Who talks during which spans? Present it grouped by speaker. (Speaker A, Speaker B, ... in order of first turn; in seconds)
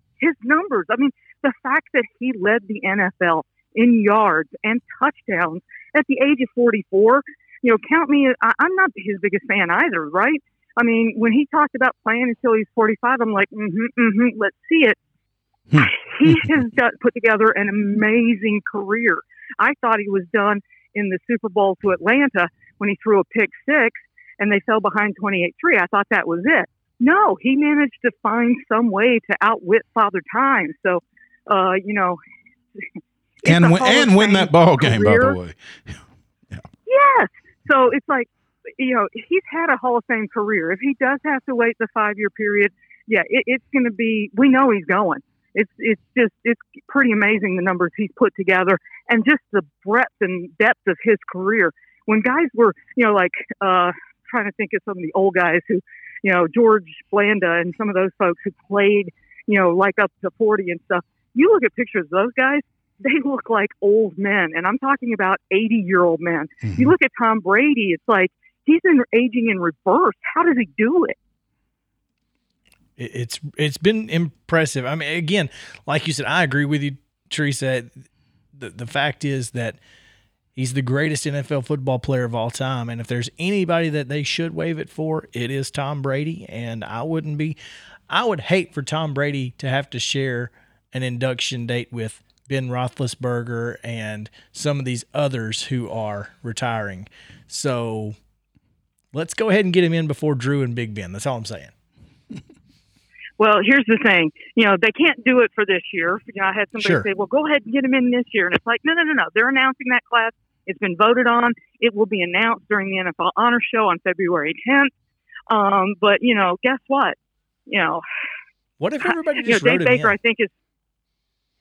Speaker A: 0.2-15.0, 15.8-32.2, 33.4-35.4, 36.9-71.2, 103.4-114.9, 115.5-117.2, 117.7-118.0, 119.0-120.5
Speaker B: 15.7-16.6, 33.5-36.6, 66.7-66.9
Speaker C: 73.0-79.8, 80.6-87.6, 88.1-98.2, 99.1-101.7, 106.8-107.1, 118.8-120.2